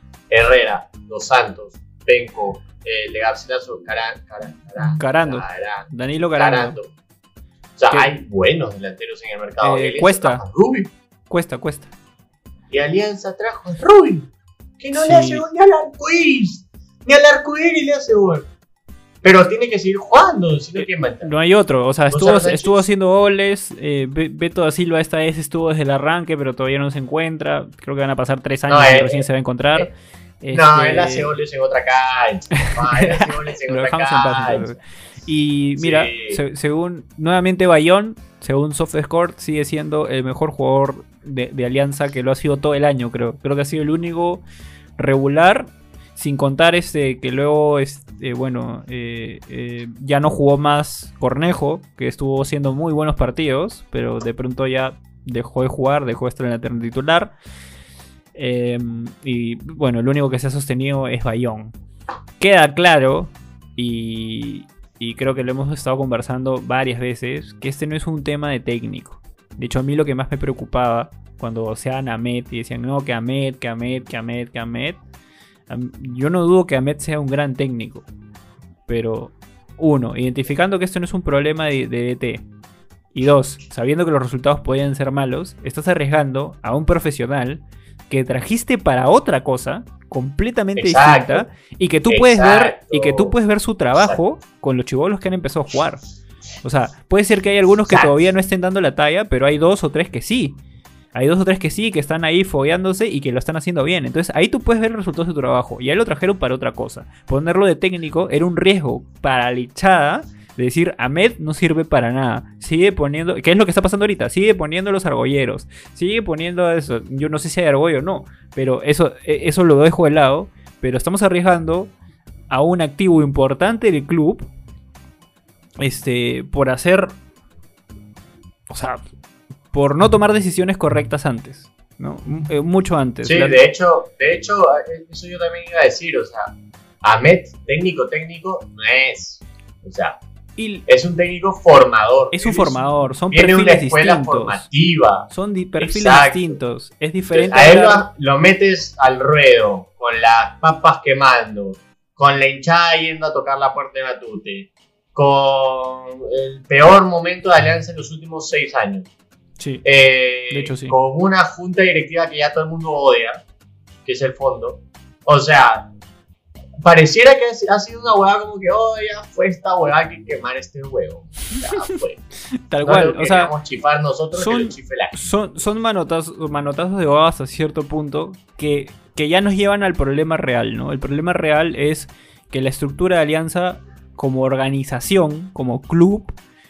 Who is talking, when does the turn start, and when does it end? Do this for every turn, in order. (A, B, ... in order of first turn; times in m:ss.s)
0:00.3-0:06.9 A
0:04.8-0:06.8 B
0:07.8-0:10.9 A
0:09.6-0:10.4 B
0:11.3-0:11.9 B
0:12.7-0:18.5 A
0:14.9-0:15.4 B
0:19.2-0:21.3 A
0:20.8-0:31.3 B
0:22.1-0:22.8 A
0:28.7-0:29.9 A
0:30.5-0:34.7 A
0:32.6-0:44.4 B
0:35.8-0:36.4 A
0:45.0-0:57.3 B
0:58.3-1:01.7 B
1:02.4-1:15.0 B
1:15.7-1:18.0 B
1:18.9-1:22.4 B
1:23.1-1:36.0 B
1:30.8-1:31.4 A
1:32.1-1:33.3 A
1:36.6-1:40.6 B
1:37.9-1:38.2 A
1:41.1-2:01.9 B
2:02.5-2:04.5 B
2:05.8-2:07.1 B
2:08.7-2:09.0 B
2:09.7-2:13.6 B
2:13.2-2:20.2 A
2:20.6-2:20.8 B
2:20.9-2:22.8 A
2:22.3-2:24.7 B
2:23.3-2:26.5 A
2:25.3-2:28.0 B
2:27.3-2:39.1 A
2:39.6-2:39.8 B
2:39.8-2:43.4 A
2:40.5-2:41.0 B
2:44.0-2:45.9 A
2:46.8-2:52.2 A
2:52.7-2:53.5 B
2:52.8-2:55.1 A
2:54.3-3:06.4 B